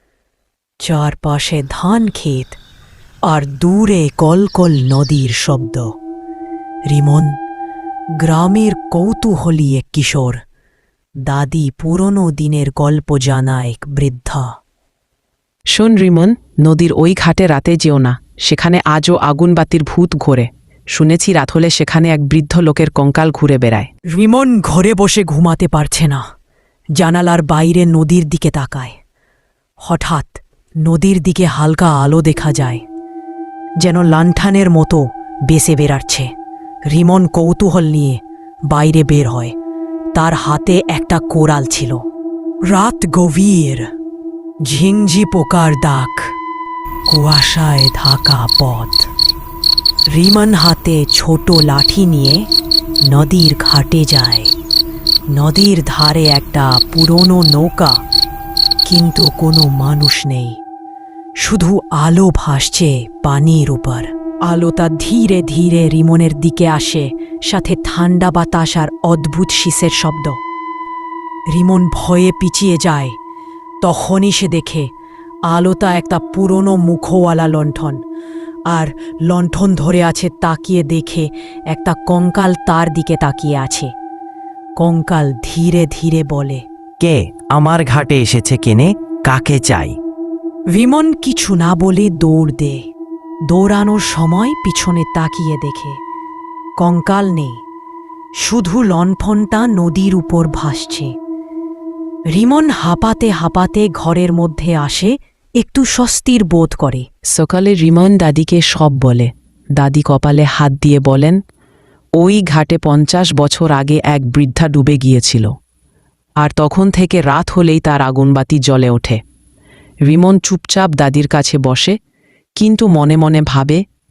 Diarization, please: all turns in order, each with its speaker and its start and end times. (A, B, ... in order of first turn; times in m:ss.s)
0:00.8-0:02.6 A
0:03.2-0:05.9 A
0:06.9-0:07.4 A
0:08.2-0:10.4 A
0:11.2-0:14.5 A
0:15.7-0:23.9 B
0:24.1-0:26.2 A
0:27.0-0:29.0 A
0:29.8-0:32.8 A
0:33.8-0:36.3 A
0:36.9-0:39.6 A
0:40.1-0:42.0 A
0:42.7-0:43.9 A
0:44.6-0:46.3 A
0:47.1-0:49.1 A
0:50.1-0:52.5 A
0:53.0-0:54.5 A
0:55.3-0:58.0 A
0:58.8-1:00.6 A
1:01.4-1:10.4 A
1:11.5-1:13.2 A
1:13.8-1:14.9 A
1:15.5-1:18.0 A
1:18.7-1:23.9 A
1:24.8-1:26.6 A
1:27.0-1:30.0 C
1:30.7-1:32.8 A
1:33.5-1:36.0 A
1:36.8-1:37.6 A
1:38.4-1:41.1 A
1:42.3-1:47.0 A
1:47.3-1:51.4 B
1:52.2-1:55.5 B
1:56.4-1:59.2 B
2:00.0-2:01.9 B
2:02.6-2:03.8 B